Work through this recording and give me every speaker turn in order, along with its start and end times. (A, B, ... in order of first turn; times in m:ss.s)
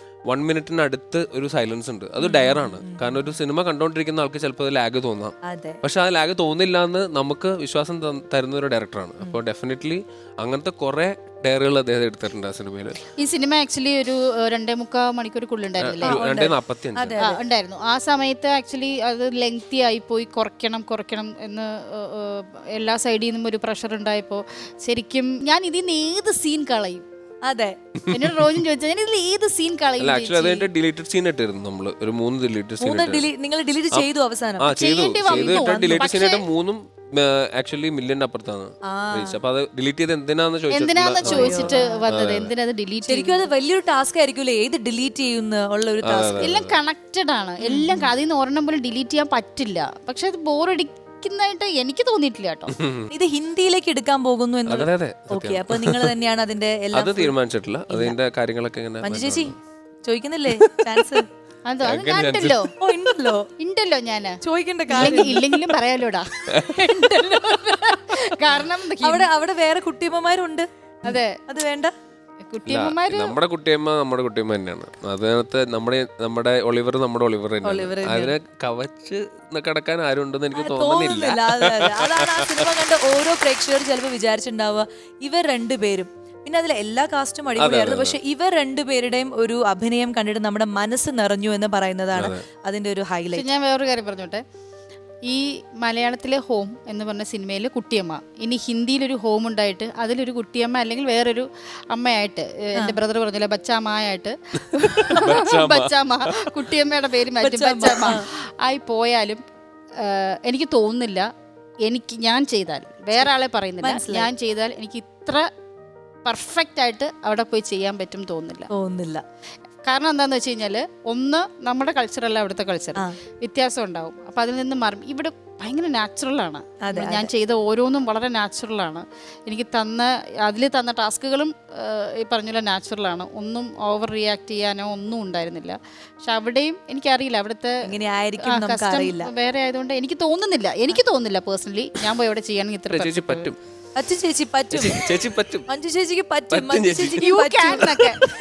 0:00.3-0:13.0 A
0:02.2-0:03.3 B
0:05.4-0:05.8 B
0:13.2-0:16.2 C
0:15.8-0:17.2 A
0:16.0-0:17.4 B
0:17.2-0:27.0 C
0:27.5-0:27.7 B
0:28.1-0:30.7 C
0:30.0-0:33.3 A
0:32.8-0:34.7 B
0:34.6-0:42.5 A
0:34.7-0:36.5 C
0:35.2-0:36.1 B
0:38.9-0:39.4 B
0:40.7-0:43.5 C
0:41.2-0:42.0 B
0:43.0-0:46.5 B
0:46.0-0:46.7 A
0:46.4-0:52.7 C
0:47.6-0:48.1 B
0:52.7-0:53.1 A
0:53.1-0:57.3 B
0:54.7-0:56.1 A
0:56.9-0:59.6 A
0:57.9-0:58.2 B
0:59.0-0:59.5 B
1:00.0-1:01.2 B
1:00.6-1:01.2 A
1:01.6-1:02.7 C
1:01.8-1:02.6 A
1:02.8-1:03.4 B
1:03.6-1:04.4 C
1:04.4-1:05.4 B
1:04.9-1:09.3 C
1:06.5-1:06.8 A
1:09.0-1:11.9 B
1:11.0-1:11.3 C
1:12.5-1:13.4 C
1:12.7-1:22.7 A
1:17.6-1:18.4 B
1:20.5-1:33.4 B
1:27.6-1:28.2 A
1:32.1-1:32.4 A
1:33.3-1:34.4 C
1:35.3-1:49.4 C
1:44.7-1:46.4 A
1:47.4-1:48.2 B
1:50.0-1:51.2 C
1:51.8-1:55.4 C
1:53.8-1:54.3 B
1:56.2-1:58.7 C
1:58.7-1:59.2 B
1:59.8-2:17.8 C
2:06.8-2:07.3 B
2:17.8-2:19.3 B
2:18.4-2:23.5 C
2:22.9-2:23.6 A
2:24.0-2:25.1 B
2:24.7-2:25.7 A
2:25.7-2:28.0 B
2:26.5-2:27.2 A
2:27.2-2:28.2 C